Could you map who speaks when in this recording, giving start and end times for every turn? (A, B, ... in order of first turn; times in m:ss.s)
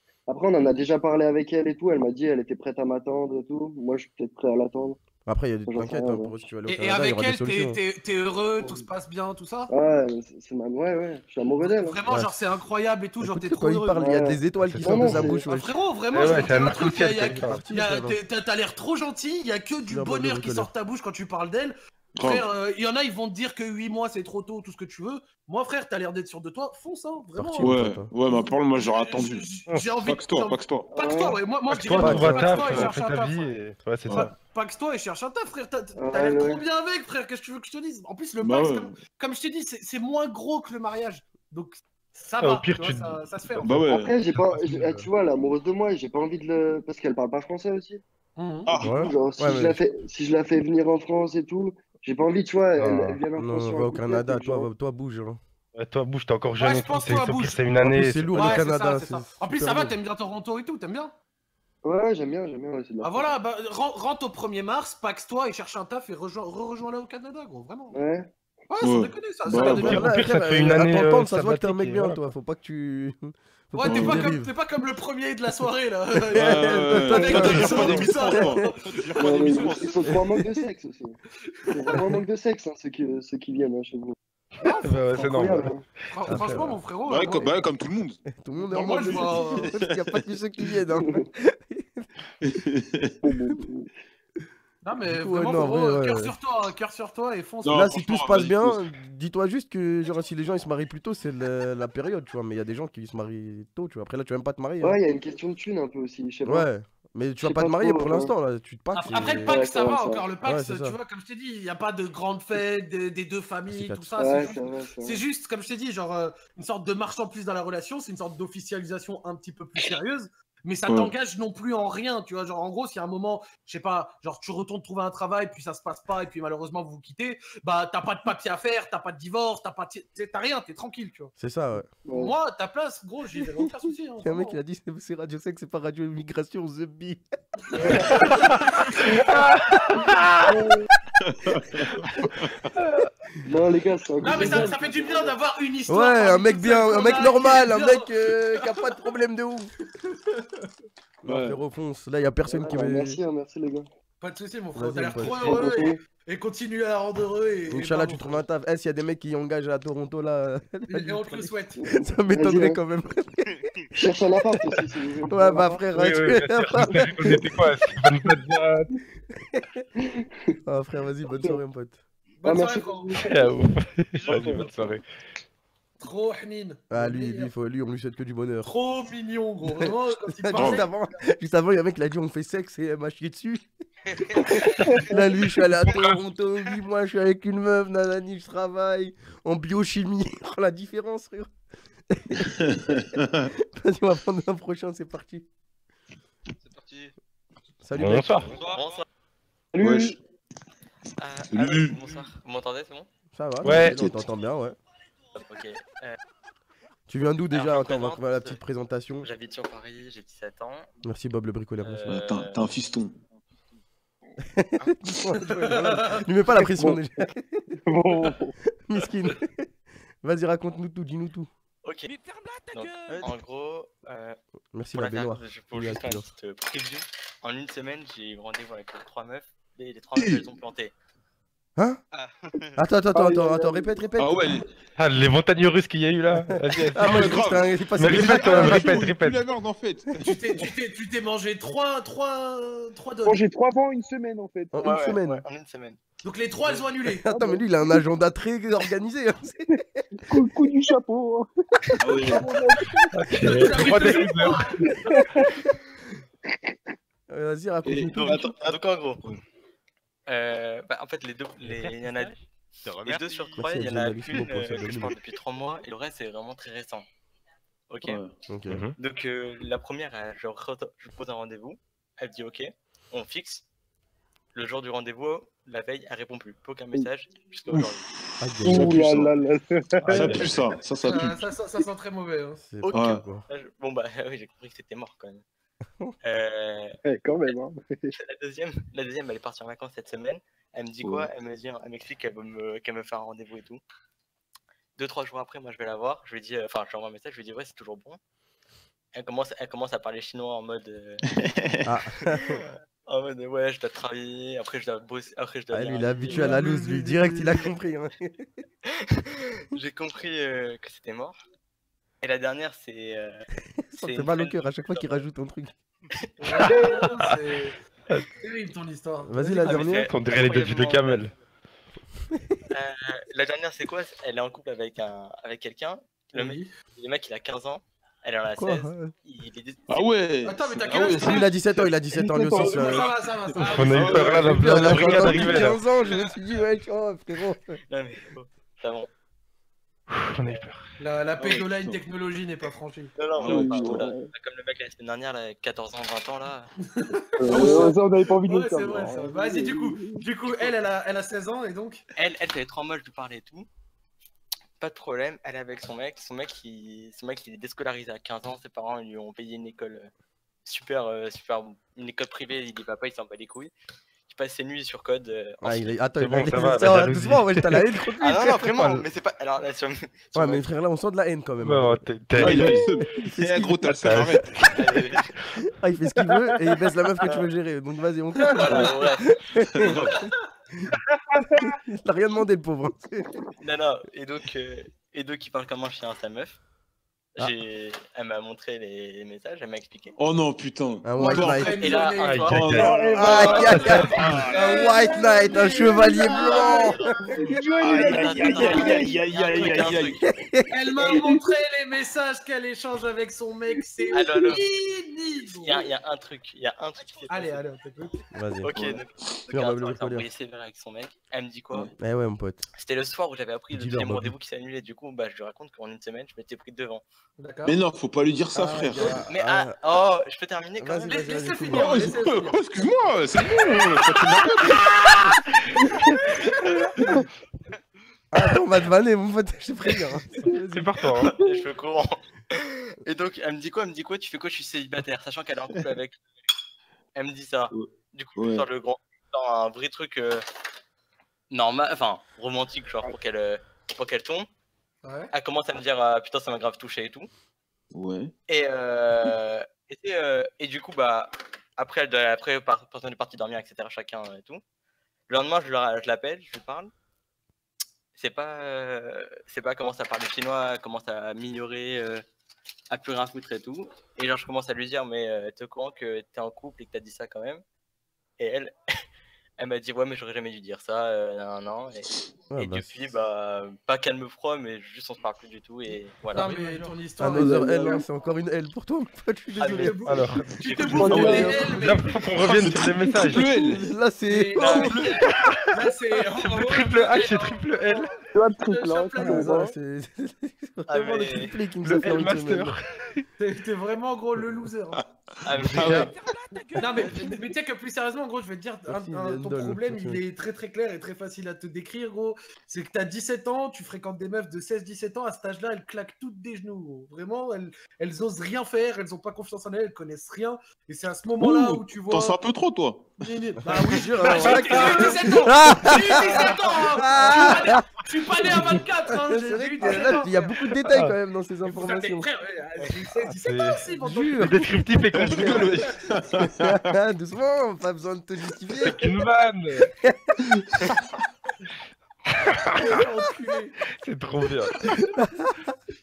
0:00.3-0:05.0 A
0:05.3-0:07.8 B
0:05.7-0:06.3 A
0:06.7-0:09.7 C
0:09.7-0:12.0 A
0:11.6-0:14.0 C
0:12.1-0:12.3 B
0:13.2-0:15.7 B
0:14.0-0:15.4 A
0:14.6-0:15.3 D
0:15.5-0:27.8 C
0:16.1-0:17.6 D
0:17.2-0:18.2 B
0:19.9-0:20.7 B
0:22.2-0:22.5 E
0:27.4-0:28.1 B
0:27.6-0:30.9 E
0:28.8-0:33.6 C
0:31.0-0:31.4 A
0:31.7-0:34.3 D
0:31.9-0:32.6 B
0:32.4-0:32.9 E
0:34.1-0:34.3 E
0:34.1-0:43.9 C
0:36.0-0:36.6 A
0:38.4-0:39.0 E
0:42.4-0:43.8 D
0:43.6-0:44.2 E
0:43.9-0:48.0 A
0:44.4-0:45.1 D
0:48.4-0:48.7 C
0:48.7-0:49.2 E
0:48.8-0:49.8 B
0:49.0-0:54.7 A
0:52.8-0:53.1 D
0:52.8-0:55.4 B
0:55.8-0:58.6 D
0:56.6-0:57.6 C
0:57.8-0:59.9 B
0:58.4-1:01.1 C
1:01.8-1:03.3 A
1:03.0-1:08.0 C
1:07.9-1:08.3 A
1:08.7-1:10.1 C
1:08.8-1:10.1 E
1:09.6-1:14.5 B
1:09.9-1:12.2 D
1:13.7-1:20.2 C
1:13.9-1:14.2 E
1:16.3-1:20.2 E
1:16.3-1:18.6 B
1:17.7-1:18.0 D
1:19.2-1:21.2 A
1:20.1-1:20.4 B
1:21.6-1:22.0 C
1:21.7-1:24.2 A
1:24.6-1:25.2 C
1:24.6-1:25.7 D
1:25.2-1:25.8 A
1:26.1-1:27.6 C
1:26.3-1:26.8 B
1:27.0-1:28.2 E
1:28.3-1:32.1 B
1:28.7-1:29.7 C
1:28.7-1:30.1 E
1:32.4-1:33.2 E
1:33.2-1:33.9 F
1:34.8-1:38.0 C
1:35.1-1:36.3 B
1:37.6-1:38.9 E
1:37.7-1:45.0 B
1:44.8-1:46.7 A
1:46.4-1:49.6 B
1:47.4-1:48.3 A
1:48.9-2:11.3 C
1:49.4-1:50.3 A
1:50.4-1:51.0 B
1:53.7-1:54.4 B
1:54.2-1:55.2 A
2:00.9-2:01.1 E
2:11.4-2:11.9 B
2:12.1-2:12.4 A
2:12.1-2:14.6 C
2:14.2-2:17.2 B
2:17.8-2:19.0 C
2:18.3-2:18.6 D
2:19.4-2:20.6 D
2:21.2-2:22.7 E
2:23.5-2:25.4 A
2:24.2-2:28.8 C
2:25.9-2:29.7 B
2:31.2-2:33.2 B
2:31.3-2:31.6 E
2:32.4-2:33.9 A
2:34.2-2:38.4 C
2:34.8-2:35.7 B
2:35.4-2:36.0 A
2:37.7-2:43.7 B
2:40.9-2:41.9 C
2:42.0-2:42.8 A
2:44.0-2:45.8 A
2:45.3-2:47.5 B
2:45.9-2:48.9 D
2:46.9-2:47.4 A
2:50.2-2:50.6 A
2:50.7-2:52.0 B
2:52.4-2:53.2 C
2:52.4-2:53.6 A
2:53.2-2:55.0 D
2:54.2-2:55.0 G
2:56.0-2:57.5 C
2:56.9-2:58.7 B
2:58.6-3:01.0 C
2:59.7-3:03.7 B
3:00.5-3:00.8 E
3:04.1-3:05.0 G
3:05.1-3:11.5 B
3:12.1-3:13.0 B
3:12.6-3:13.5 E
3:13.7-3:15.5 B
3:16.6-3:17.1 G
3:17.8-3:18.5 B
3:18.0-3:18.5 D
3:18.4-3:19.0 G
3:18.6-3:19.0 H
3:19.7-3:20.2 F
3:19.8-3:20.2 E
3:21.2-3:23.1 H
3:21.5-3:22.0 E
3:23.3-3:24.8 B
3:23.6-3:24.0 D
3:23.6-3:24.3 E
3:25.3-3:26.2 H
3:27.1-3:29.3 B
3:27.5-3:28.6 H
3:29.2-3:30.9 H
3:31.0-3:32.2 B
3:31.8-3:32.8 H
3:32.1-3:33.2 E
3:34.5-3:37.6 B
3:35.4-3:36.2 C
3:36.6-3:37.0 F
3:37.9-3:38.5 F
3:38.9-3:39.7 B
3:40.2-3:41.5 B
3:41.8-3:44.4 H
3:44.7-3:46.3 B
3:45.0-3:50.9 H
3:50.2-3:50.5 E
3:52.1-3:52.8 G
3:52.8-3:54.4 B
3:53.2-3:53.4 F
3:53.3-3:53.8 A
3:54.2-3:54.7 E
3:55.0-3:59.4 D
3:56.5-3:59.1 B
3:57.0-4:00.6 E
4:00.2-4:03.4 C
4:03.2-4:04.8 F
4:04.7-4:05.4 B
4:04.8-4:06.0 H
4:06.2-4:07.3 C
4:07.2-4:10.0 B
4:07.3-4:07.6 F
4:10.2-4:11.5 F
4:12.0-4:12.5 E
4:12.1-4:14.2 F
4:13.1-4:14.7 D
4:13.4-4:14.8 C
4:14.9-4:15.5 F
4:17.3-4:18.5 B
4:17.8-4:18.6 E
4:18.2-4:19.4 H
4:20.3-4:22.4 H
4:21.6-4:22.4 D
4:22.8-4:23.6 G
4:23.0-4:27.1 H
4:23.6-4:25.1 B
4:27.9-4:28.2 H
4:28.1-4:28.3 E
4:28.5-4:28.9 B
4:28.7-4:29.0 D
4:29.0-4:33.6 H
4:34.5-4:38.1 H
4:37.7-4:39.3 E
4:38.4-4:39.0 B
4:38.6-4:40.2 F
4:40.1-4:41.5 E
4:40.1-4:40.5 B
4:40.2-4:40.5 H
4:41.0-4:42.6 C
4:42.6-4:43.4 B
4:42.8-4:45.4 H
4:42.9-4:43.3 E
4:46.2-4:47.0 H
4:47.1-4:47.7 F
4:48.2-4:53.8 H
4:51.0-4:51.3 E
4:55.0-4:58.2 H
4:59.1-5:01.2 H
5:01.8-5:02.6 B
5:03.1-5:07.0 H
5:05.7-5:08.5 B
5:06.4-5:07.1 C
5:09.7-5:11.3 H
5:12.2-5:15.2 H
5:13.9-5:15.7 B
5:16.2-5:17.0 H
5:16.4-5:17.8 C
5:16.6-5:17.4 D
5:18.4-5:19.9 C
5:19.3-5:20.1 B
5:19.6-5:21.3 H
5:19.9-5:21.3 D
5:22.7-5:30.1 H
5:26.3-5:26.7 C
5:28.6-5:29.1 B
5:29.9-5:31.8 E
5:30.4-5:31.5 C
5:31.1-5:33.1 B
5:32.1-5:33.0 F
5:32.6-5:34.2 C
5:33.0-5:35.6 E
5:33.6-5:34.4 G
5:33.6-5:35.8 D
5:34.4-5:37.8 B
5:35.8-5:36.4 G
5:37.9-5:39.1 H
5:40.1-5:40.9 D
5:41.0-5:43.1 C
5:41.4-5:42.0 E
5:43.2-5:46.7 H
5:43.4-5:44.1 E
5:43.4-5:44.3 F
5:47.0-5:52.0 C
5:47.4-5:50.2 F
5:52.2-5:53.7 H
5:54.8-6:00.1 H
6:00.7-6:03.7 H
6:04.3-6:06.1 H
6:05.6-6:09.0 B
6:06.2-6:07.6 D
6:08.2-6:10.6 H
6:10.4-6:14.3 B
6:11.6-6:12.8 D
6:12.4-6:14.6 E
6:13.9-6:14.7 D
6:14.7-6:15.3 H
6:15.7-6:19.9 B
6:18.4-6:19.2 H
6:19.7-6:20.3 E
6:19.9-6:20.2 H
6:21.3-6:21.8 F
6:21.8-6:23.4 B
6:23.6-6:26.6 H
6:27.4-6:30.2 H
6:30.2-6:33.6 E
6:31.0-6:31.9 B
6:31.2-6:37.3 C
6:31.6-6:33.8 H
6:32.2-6:32.9 D
6:32.9-6:34.0 F
6:33.1-6:37.1 B
6:33.6-6:34.3 D
6:34.1-6:34.9 E
6:36.0-6:39.2 F
6:36.3-6:37.0 H
6:37.5-6:40.2 H
6:37.8-6:40.2 E
6:38.6-6:39.0 C
6:40.2-6:40.7 B
6:40.7-6:45.8 C
6:41.0-6:41.4 F
6:44.1-6:44.6 H
6:45.6-6:47.6 H
6:47.3-6:48.2 C
6:48.3-6:48.7 B
6:48.6-6:51.9 H
6:48.7-6:49.0 E
6:49.5-6:50.3 B
6:52.0-6:52.7 B
6:52.8-6:57.0 H
6:53.7-6:54.3 B
6:57.4-6:57.8 C
6:57.6-6:59.2 E
6:58.6-6:59.7 B
6:59.3-7:01.3 H
7:00.8-7:02.2 B
7:01.0-7:02.6 C
7:01.7-7:05.0 E
7:08.3-7:11.0 B
7:10.7-7:11.4 D
7:11.2-7:16.2 H
7:17.2-7:20.4 H
7:17.7-7:18.7 E
7:21.5-7:24.5 H
7:25.0-7:25.3 C
7:25.3-7:27.3 H
7:27.9-7:28.3 E
7:28.5-7:34.6 H
7:35.3-7:36.9 H
7:38.2-7:42.2 H
7:42.9-7:47.6 H
7:48.4-7:48.7 H
7:49.6-7:56.9 H
7:52.5-7:53.0 B
7:56.3-7:58.1 C
7:57.2-8:00.1 B
7:59.6-8:02.1 C
7:59.6-8:01.7 H
8:00.0-8:00.5 D
8:00.8-8:02.2 B
8:01.1-8:01.5 E
8:01.7-8:03.5 D
8:02.4-8:03.9 E
8:03.6-8:05.0 B
8:04.3-8:09.6 C
8:04.6-8:05.3 H
8:04.7-8:05.2 E
8:06.4-8:08.2 D
8:08.3-8:09.7 F
8:09.2-8:12.8 B
8:10.9-8:11.5 H
8:11.8-8:12.8 D
8:13.4-8:15.0 C
8:15.4-8:16.1 H
8:15.7-8:16.1 E
8:16.8-8:32.4 C
8:16.9-8:17.4 H
8:18.9-8:20.2 B
8:31.5-8:31.8 B
8:32.1-8:33.2 E
8:33.2-8:40.6 C
8:33.7-8:37.9 B
8:34.4-8:35.0 D
8:38.4-8:42.3 B
8:40.9-8:41.1 D
8:41.7-8:46.0 C
8:43.4-8:45.9 D
8:44.0-8:44.7 B
8:45.1-8:46.9 E
8:46.5-8:49.1 B
8:48.8-8:49.9 D
8:52.8-8:53.8 C
8:54.0-8:54.8 D
8:55.2-8:55.6 B